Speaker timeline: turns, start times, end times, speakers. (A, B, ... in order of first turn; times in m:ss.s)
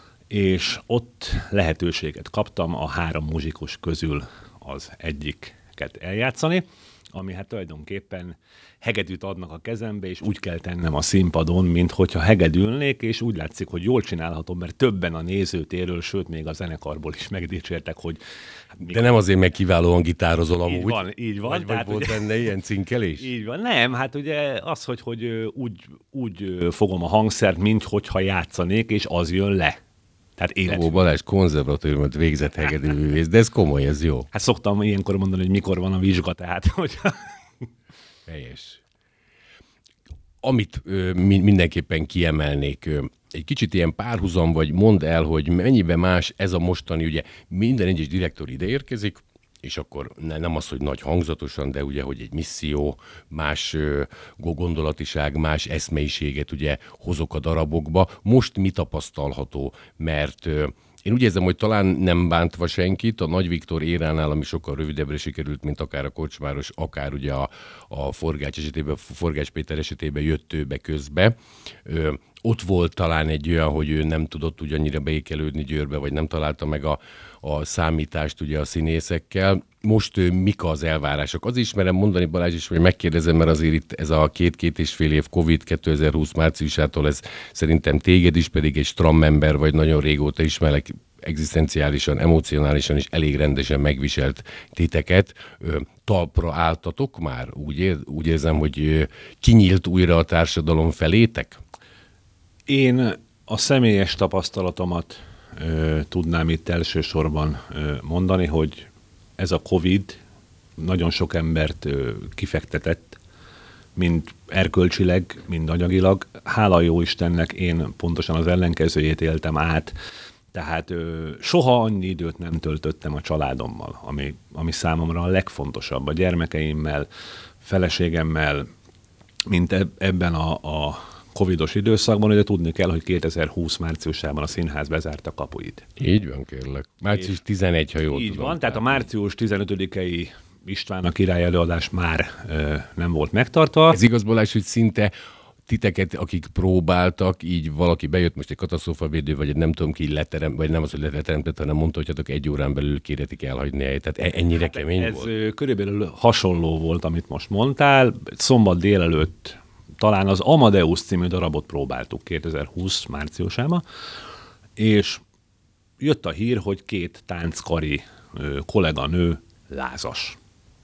0:00.3-0:18.2 A
0:18.7-0:19.0 A
0:18.9-0:23.3 B
0:20.7-0:22.3 A
0:23.2-0:29.8 A
0:30.4-0:31.0 A
0:30.7-0:34.3 B
0:34.3-0:37.7 A
0:38.3-0:38.8 B
0:40.4-1:41.6 B
1:42.7-1:48.9 A
1:49.4-1:50.2 A
1:50.8-1:53.2 A
1:54.0-1:59.9 A
2:00.5-2:07.1 A
2:07.6-2:08.7 A
2:09.5-2:15.9 A
2:16.0-2:19.1 B
2:18.1-2:24.0 A
2:23.9-2:25.1 B
2:25.7-2:35.3 B
2:34.5-2:43.8 A
2:44.8-2:45.2 A
2:46.0-2:50.4 A